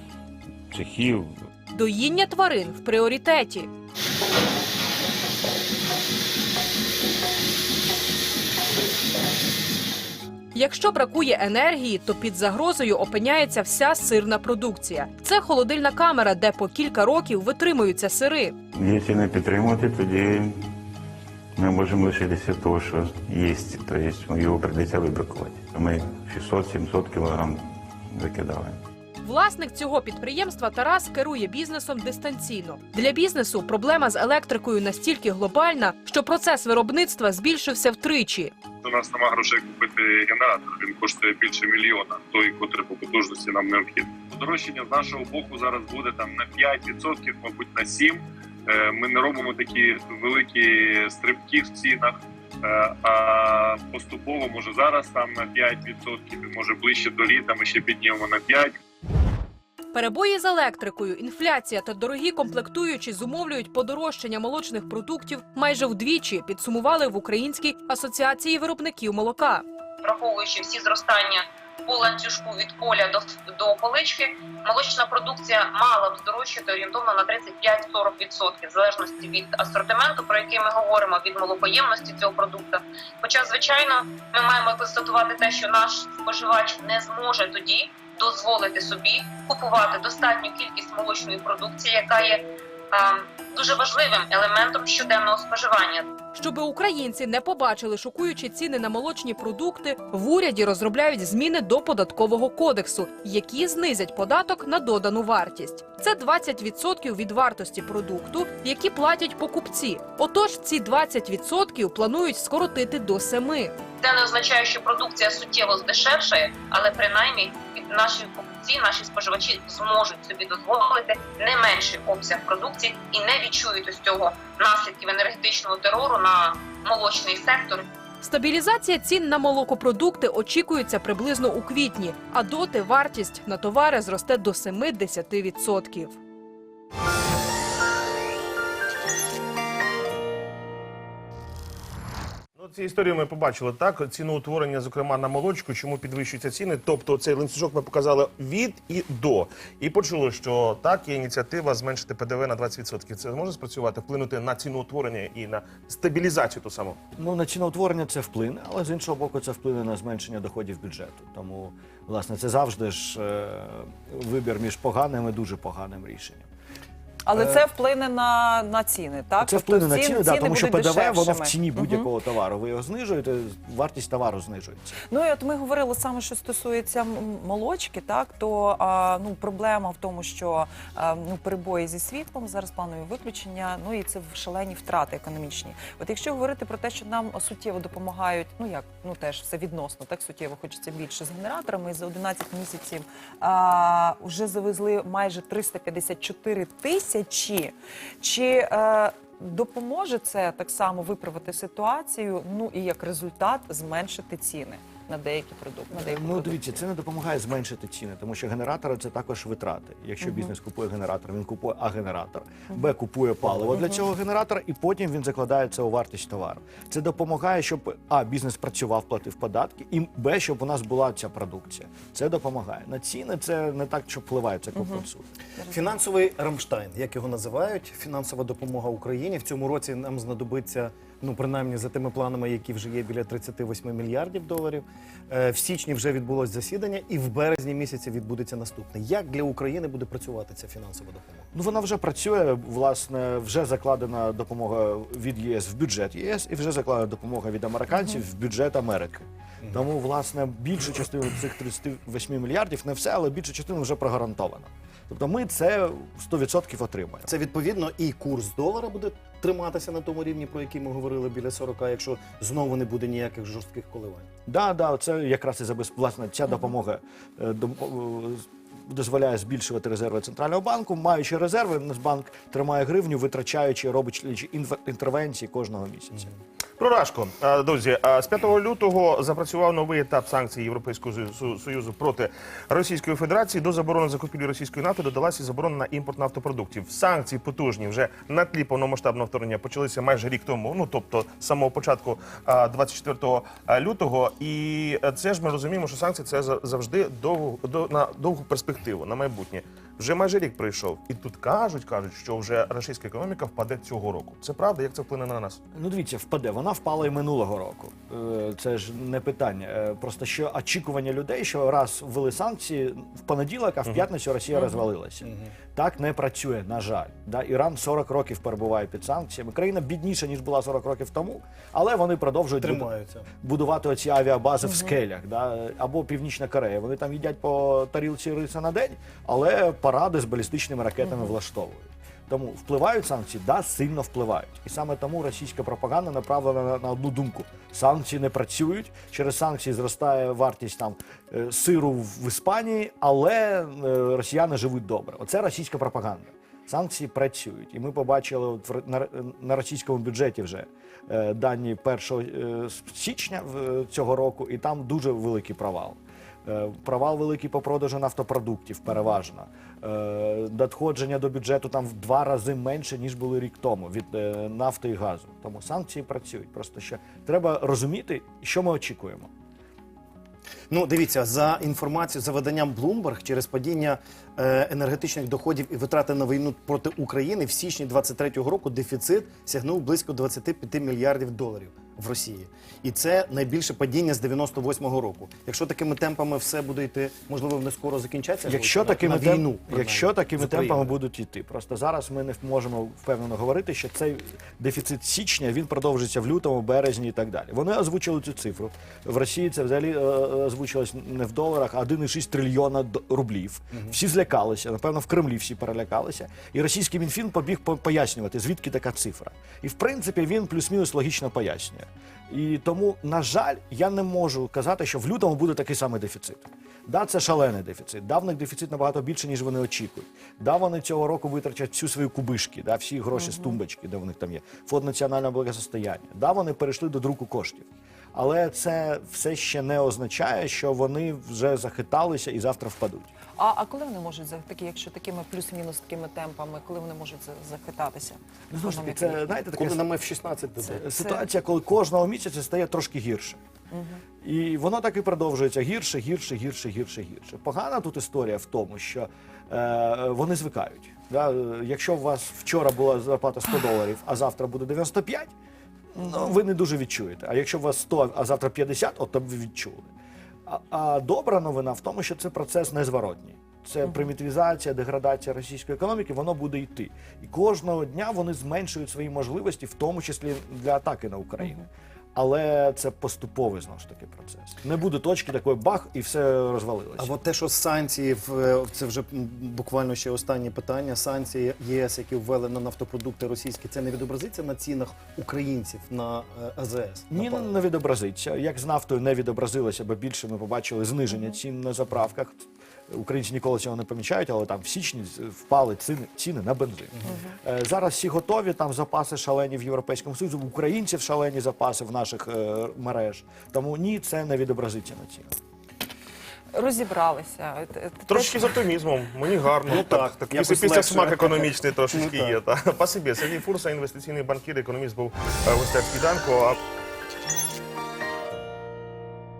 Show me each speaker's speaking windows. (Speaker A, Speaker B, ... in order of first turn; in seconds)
Speaker A: 0.7-1.3, 18.7-20.5, 21.6-27.6, 28.1-28.8
Speaker B: 1.7-3.7, 10.5-18.6, 29.2-38.5, 59.9-69.6, 96.3-113.7, 128.2-136.2
Speaker C: 38.8-58.8
Speaker D: 70.0-96.1, 114.0-127.9
Speaker E: 142.6-157.0, 276.8-305.6, 508.1-516.6
Speaker F: 157.2-166.5, 169.4-175.0, 205.9-225.2, 241.5-257.3, 264.5-276.3, 305.8-322.9, 323.4-369.3, 388.4-433.1, 438.5-439.8, 440.7-443.4, 444.2-455.3, 455.9-459.9, 460.5-471.6, 472.1-477.1, 487.1-505.3
Speaker G: 167.3-172.1, 175.1-206.8, 210.2-210.5, 224.8-225.1, 225.6-225.9, 423.1-423.6, 433.4-439.4, 440.7-441.2, 443.7-444.0, 456.0-456.4, 497.1-497.4, 506.5-508.6
Speaker H: 225.7-241.4, 257.3-264.3, 315.2-315.5, 322.6-323.3, 370.7-391.0, 439.5-440.8, 477.0-487.5, 509.7-512.4